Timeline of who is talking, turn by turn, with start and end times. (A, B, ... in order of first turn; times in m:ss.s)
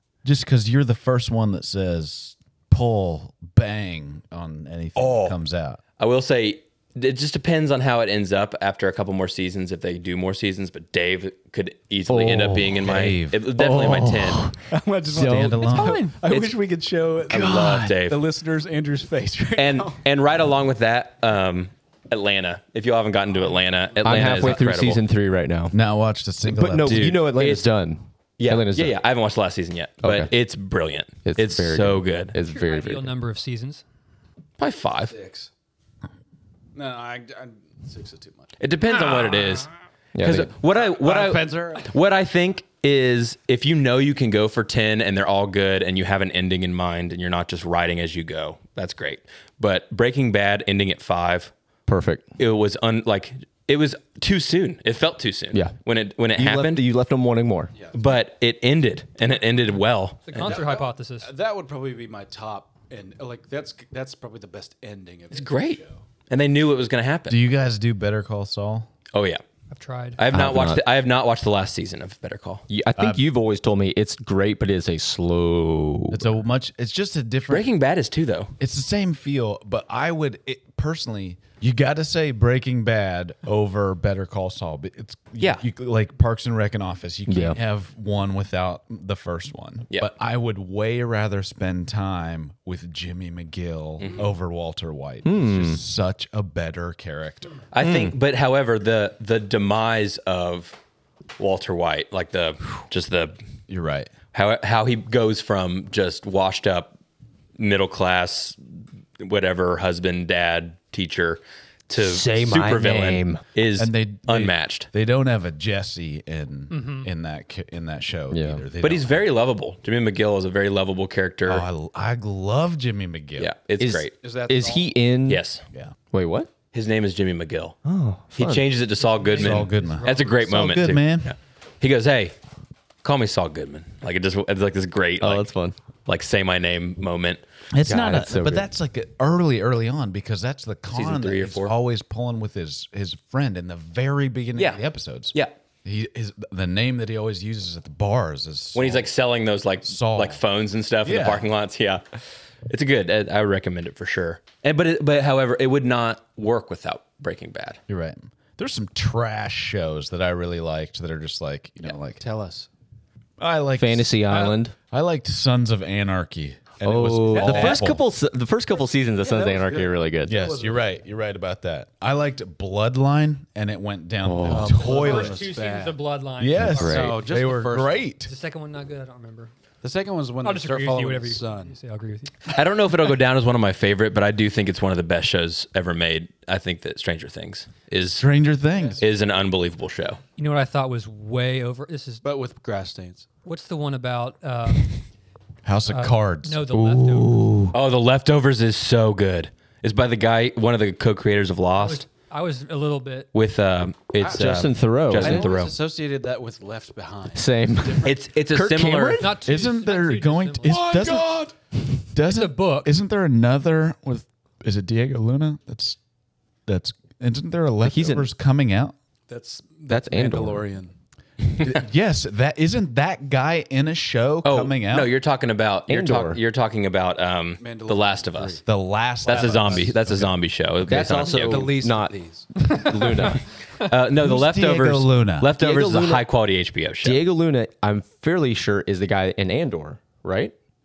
0:00.2-0:05.8 A
0:05.0-0:05.3 B
0:06.0-0:14.5 C
0:12.1-0:12.9 D
0:12.8-0:13.4 A
0:13.5-0:14.6 D
0:14.7-0:20.0 B
0:15.1-0:16.1 A
0:15.1-0:15.8 D
0:15.5-0:16.2 E
0:17.3-0:18.2 C
0:17.3-0:17.9 A
0:19.6-0:25.0 C
0:24.0-0:25.8 D
0:25.7-0:27.2 A
0:26.5-0:28.9 D
0:26.8-0:27.7 C
0:28.4-0:32.4 C
0:30.0-0:30.3 D
0:31.3-0:33.2 D
0:32.4-0:33.8 E
0:34.6-0:35.1 C
0:35.1-0:35.5 B
0:36.8-0:38.6 B
0:38.6-0:51.5 C
0:40.2-0:40.5 D
0:40.7-0:41.9 B
0:51.9-0:52.2 D
0:52.4-0:56.8 C
0:56.4-0:57.7 D
0:57.9-1:00.6 C
1:00.3-1:01.3 E
1:00.4-1:06.0 B
1:05.3-1:07.4 C
1:07.3-1:08.9 A
1:09.1-1:09.4 C
1:09.7-1:10.2 E
1:10.2-1:12.6 C
1:10.3-1:10.8 D
1:12.7-1:16.2 D
1:13.0-1:13.2 A
1:16.1-1:17.7 A
1:17.5-1:18.5 C
1:18.6-1:37.6 A
1:27.3-1:27.6 D
1:35.2-1:35.8 D
1:37.7-1:40.8 C
1:37.8-1:38.1 D
1:41.4-1:43.4 C
1:43.7-1:44.1 A
1:44.3-1:47.0 C
1:47.6-1:48.6 C
1:49.2-1:54.9 C
1:52.0-1:53.4 D
1:53.8-1:59.3 A
1:56.7-1:57.1 E
1:58.3-1:58.6 D
1:58.8-2:01.6 C
2:01.5-2:03.5 A
2:03.4-2:04.1 C
2:03.8-2:05.4 D
2:04.2-2:05.0 B
2:05.3-2:05.6 C
2:06.1-2:06.5 D
2:06.7-2:07.8 C
2:07.8-2:08.7 D
2:08.3-2:12.3 C
2:09.2-2:10.0 E
2:09.4-2:11.3 A
2:10.0-2:10.3 B
2:13.0-2:15.5 C
2:15.2-2:15.8 D
2:16.1-2:18.2 C
2:17.7-2:29.1 A
2:17.9-2:18.7 D
2:20.9-2:21.7 C
2:24.6-2:24.8 C
2:28.7-2:32.0 C
2:29.8-2:30.4 A
2:31.0-2:31.5 A
2:32.7-2:37.8 C
2:37.9-2:42.2 A
2:42.2-2:42.7 B
2:43.4-2:48.0 A
2:43.8-2:44.7 D
2:46.8-2:50.5 D
2:47.3-2:47.8 B
2:49.2-2:51.0 B
2:50.3-2:55.4 A
2:54.2-2:54.9 D
2:54.5-2:56.0 B
2:54.7-2:57.2 E
2:56.4-2:58.3 A
2:56.6-2:57.1 D
2:56.8-2:58.1 B
2:58.2-2:59.5 E
2:59.8-3:01.8 B
3:00.4-3:02.5 E
3:02.5-3:08.3 C
3:08.2-3:09.0 A
3:09.0-3:10.2 C
3:10.4-3:12.2 E
3:12.2-3:13.3 B
3:13.4-3:15.0 E
3:15.6-3:16.7 A
3:15.9-3:17.4 E
3:16.7-3:17.8 D
3:17.7-3:22.1 C
3:21.8-3:23.3 E
3:23.3-3:25.8 C
3:24.2-3:28.1 B
3:24.2-3:25.5 D
3:27.4-3:29.4 D
3:28.0-3:29.3 C
3:29.2-3:30.9 E
3:29.4-3:31.4 A
3:30.6-3:31.5 B
3:32.1-3:36.0 A
3:32.2-3:32.9 E
3:36.7-3:39.0 A
3:37.8-3:38.3 D
3:39.3-3:40.9 B
3:39.9-3:40.7 D
3:41.6-3:45.1 A
3:44.4-3:48.6 C
3:45.9-3:46.4 D
3:47.6-3:48.6 B
3:48.7-3:50.3 A
3:49.2-3:50.0 B
3:49.3-3:51.7 C
3:50.8-3:52.1 D
3:51.2-3:52.5 B
3:52.6-3:53.3 E
3:52.6-3:53.4 D
3:53.9-3:57.2 C
3:54.2-3:55.5 A
3:55.6-3:56.2 D
3:57.0-4:00.5 D